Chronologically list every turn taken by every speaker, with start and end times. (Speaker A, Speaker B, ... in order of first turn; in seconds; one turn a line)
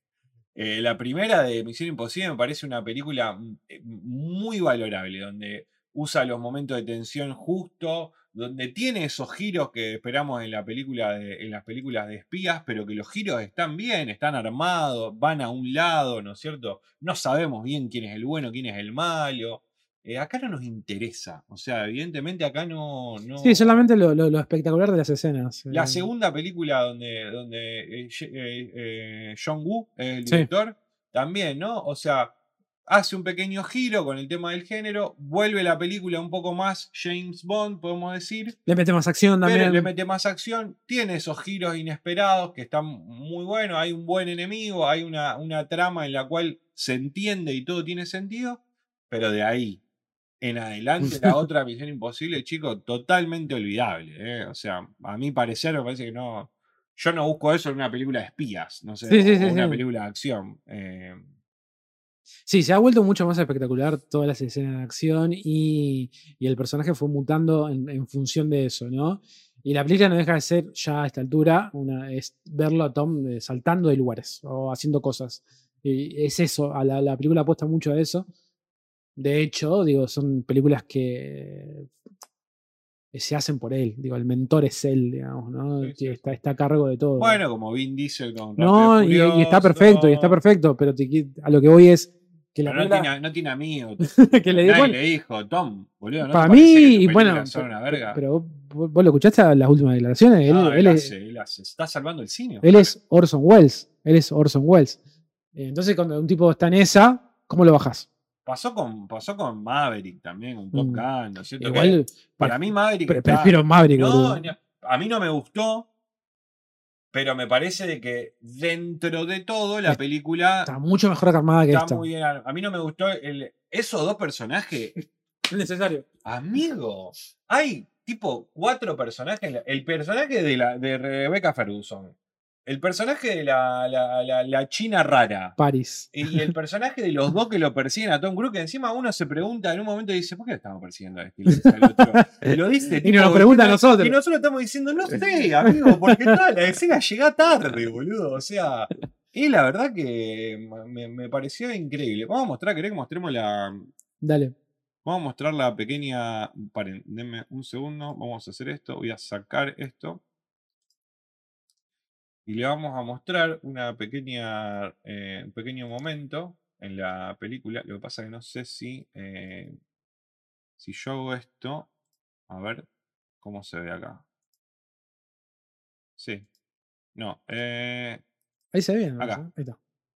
Speaker A: 0.5-23.9
Speaker B: 23.4-26.1
Speaker A: 25.7-32.3
Speaker A: 32.9-38.5
Speaker B: 38.6-39.9
Speaker A: 39.4-49.8
Speaker A: 50.4-61.2
Speaker B: 59.1-59.8
Speaker B: 62.5-78.3
Speaker B: 79.2-81.9
Speaker B: 83.1-87.4
Speaker A: 85.8-86.2
Speaker A: 87.2-90.4
Speaker B: 88.6-93.1
Speaker A: 92.6-98.2
Speaker B: 94.0-95.0
Speaker B: 96.2-101.1
Speaker A: 100.5-102.9
Speaker B: 102.6-105.0
Speaker B: 105.5-108.1
Speaker A: 108.4-115.9
Speaker B: 110.7-111.0
Speaker B: 111.6-114.4
Speaker A: 117.1-120.7
Speaker B: 120.7-122.0
Speaker A: 121.7-125.0
Speaker B: 125.5-126.0
Speaker A: 126.2-132.1
Speaker A: 132.7-135.6
Speaker B: 135.6-136.4
Speaker A: 136.1-153.9
Speaker B: 141.5-144.1
Speaker B: 145.7-146.3
Speaker B: 154.2-154.5
Speaker A: 155.0-160.2
Speaker A: 162.4-169.7
Speaker A: 170.8-171.9
Speaker A: 172.5-172.8
Speaker A: 173.4-174.2
Speaker A: 176.2-176.5
Speaker A: 177.1-178.2
Speaker B: 178.7-179.8